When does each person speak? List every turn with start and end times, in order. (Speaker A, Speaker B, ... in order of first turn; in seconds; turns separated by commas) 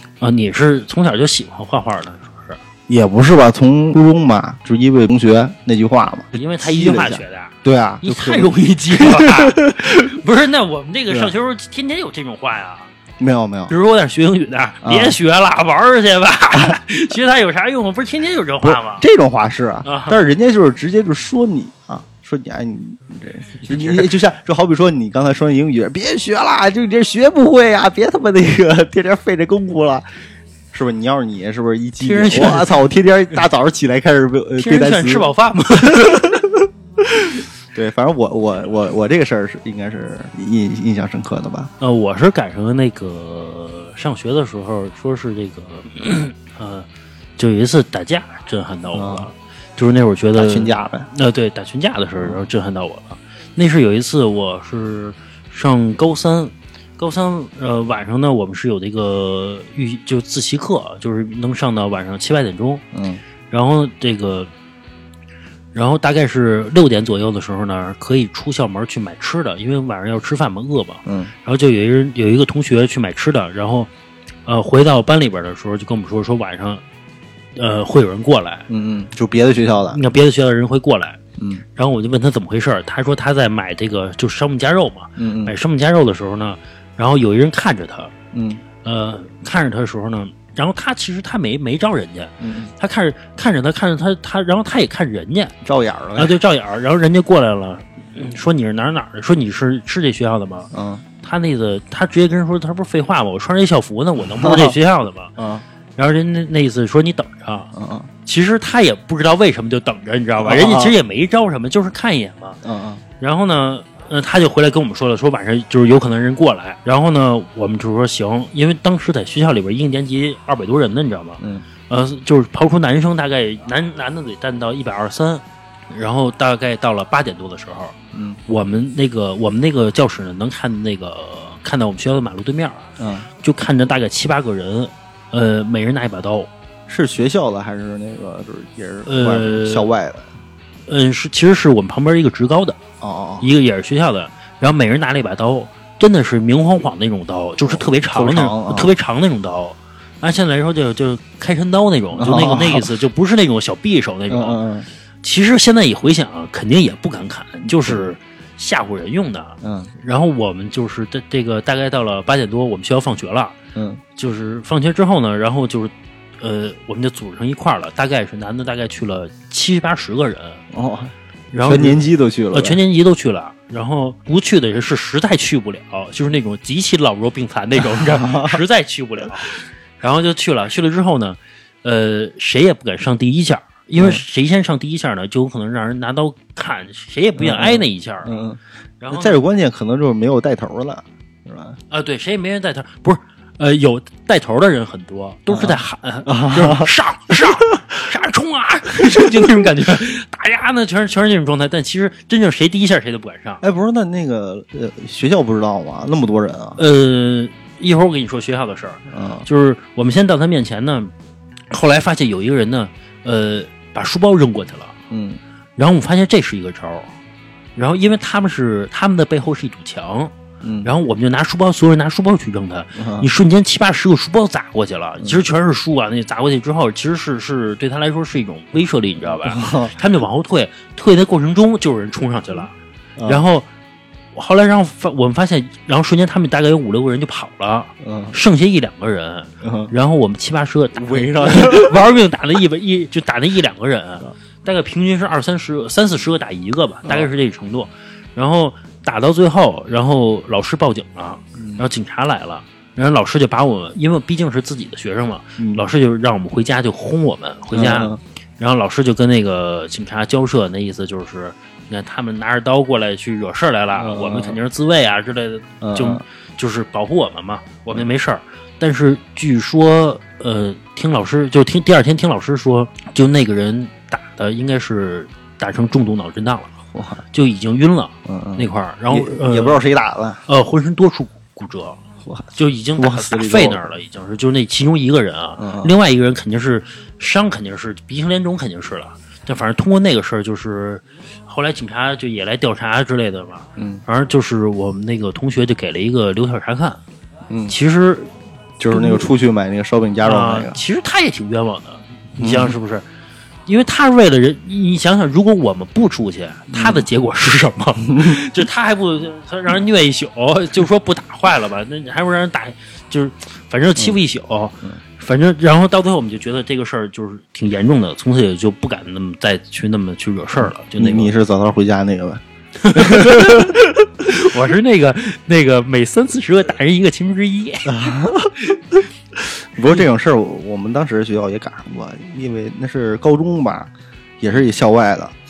Speaker A: 0.2-2.6, Speaker B: 2.9-10.2, Speaker A: 6.3-12.9, Speaker B: 13.2-13.8, Speaker A: 13.7-19.1, Speaker B: 14.8-15.2, Speaker B: 18.6-30.1, Speaker A: 19.9-20.2, Speaker A: 23.7-24.1, Speaker B: 30.7-36.6, Speaker A: 32.0-32.8, Speaker A: 34.6-36.4, Speaker B: 37.2-41.7, Speaker A: 41.8-46.9, Speaker A: 47.4-62.8, Speaker B: 48.9-49.3, Speaker B: 50.4-51.1, Speaker B: 62.9-63.2, Speaker A: 63.5-64.5, Speaker A: 65.7-73.9, Speaker B: 71.1-71.3, Speaker A: 74.5-76.8, Speaker A: 77.6-78.7, Speaker B: 78.7-80.0, Speaker A: 79.9-81.2, Speaker B: 81.4-81.6, Speaker A: 81.8-88.1, Speaker B: 85.2-85.5, Speaker B: 88.3-88.6, Speaker A: 88.8-95.5, Speaker B: 92.4-92.7, Speaker B: 95.6-96.4, Speaker A: 96.2-100.7, Speaker B: 100.7-101.0, Speaker A: 101.2-105.3, Speaker B: 104.2-104.8, Speaker B: 105.4-105.6, Speaker A: 106.0-107.7, Speaker B: 107.7-108.1, Speaker A: 108.3-112.6, Speaker B: 110.4-111.0, Speaker B: 112.6-113.0, Speaker A: 113.2-128.0, Speaker B: 121.4-121.7, Speaker B: 128.1-128.4, Speaker A: 128.5-132.8, Speaker B: 133.0-133.3, Speaker A: 133.4-136.5, Speaker B: 136.9-140.3, Speaker A: 139.1-139.9, Speaker A: 140.9-142.8, Speaker B: 143.0-143.5, Speaker A: 143.4-154.6, Speaker B: 147.6-148.9, Speaker B: 152.2-153.0, Speaker B: 154.3-154.9, Speaker A: 155.2-163.6, Speaker B: 157.7-158.2, Speaker B: 159.6-159.9, Speaker B: 163.8-164.0, Speaker A: 164.2-170.6, Speaker B: 170.7-171.1, Speaker A: 171.5-188.4, Speaker B: 171.6-172.8, Speaker B: 177.8-178.6, Speaker B: 184.0-184.2, Speaker B: 187.4-188.6, Speaker A: 189.0-189.4, Speaker B: 189.1-191.8, Speaker A: 191.9-203.6, Speaker B: 195.5-197.5, Speaker B: 199.1-199.7, Speaker B: 203.6-206.8, Speaker A: 206.8-211.1, Speaker B: 209.1-209.5, Speaker A: 211.7-214.9, Speaker B: 215.1-215.4, Speaker A: 215.8-217.1, Speaker A: 217.8-232.7, Speaker B: 220.6-220.9, Speaker B: 223.0-223.3, Speaker B: 229.3-229.9, Speaker B: 233.2-233.4, Speaker A: 233.3-233.7, Speaker A: 234.3-276.7, Speaker B: 238.0-238.4, Speaker B: 239.6-239.9, Speaker B: 241.0-242.0, Speaker B: 251.6-251.9, Speaker B: 255.6-255.8, Speaker B: 257.7-258.2, Speaker B: 263.9-264.6, Speaker B: 265.8-266.2, Speaker B: 276.9-277.2, Speaker A: 277.3-279.8, Speaker B: 278.3-280.4, Speaker A: 280.5-282.0, Speaker B: 282.2-283.8, Speaker A: 282.6-297.0, Speaker B: 285.6-285.9, Speaker B: 293.8-294.0, Speaker B: 297.5-297.8, Speaker A: 297.7-298.3, Speaker B: 298.8-300.8, Speaker A: 298.9-299.3, Speaker A: 300.2-303.0, Speaker B: 302.4-302.8, Speaker A: 303.7-321.3, Speaker B: 306.7-307.1, Speaker B: 308.1-308.4, Speaker B: 321.0-323.8, Speaker A: 322.8-328.1, Speaker B: 327.9-333.9, Speaker B: 334.4-335.4